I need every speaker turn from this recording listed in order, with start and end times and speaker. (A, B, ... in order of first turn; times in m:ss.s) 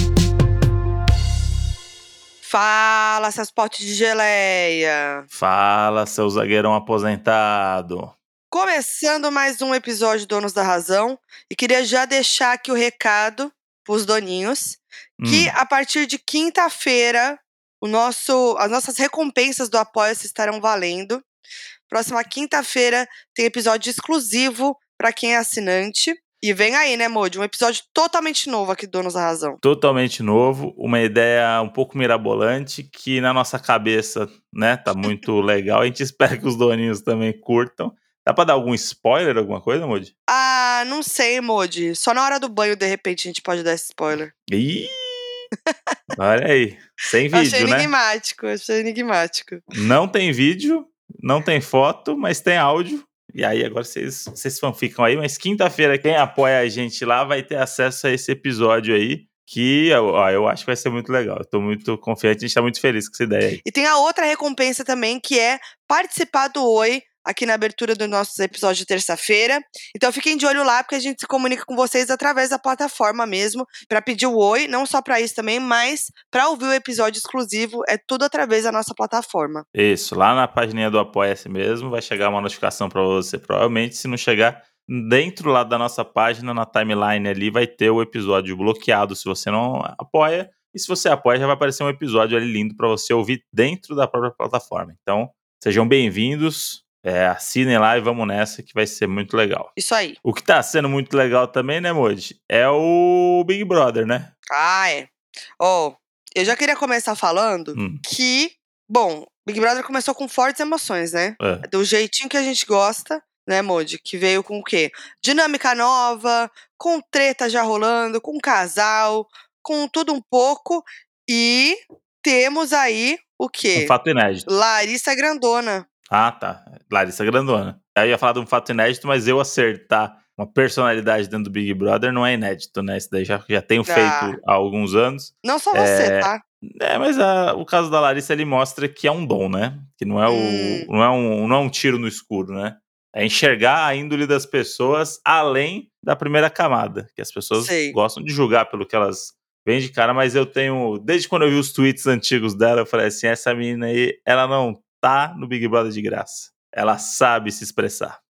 0:02.4-0:05.3 A
0:05.3-0:08.1 B
0:08.5-0:21.2 A
0:15.2-0:15.5 B
0:21.9-0:29.6 A
0:29.6-0:40.1 B
0:40.3-0:44.3 A
0:44.5-0:45.5 B
0:46.2-0:47.9 B
0:47.3-0:49.6 A
0:49.7-1:03.6 B
1:03.6-1:19.6 A
1:19.7-1:39.7 B
1:39.8-1:40.2 A
1:40.2-1:44.3 B
1:44.5-2:03.9 A
1:47.8-1:48.0 B
1:51.4-1:51.6 B
2:03.8-2:04.5 B
2:04.5-2:05.9 A
2:06.1-2:38.2 B
2:13.9-2:14.4 A
2:15.4-2:16.4 A
2:20.3-2:20.9 A
2:27.6-2:28.0 A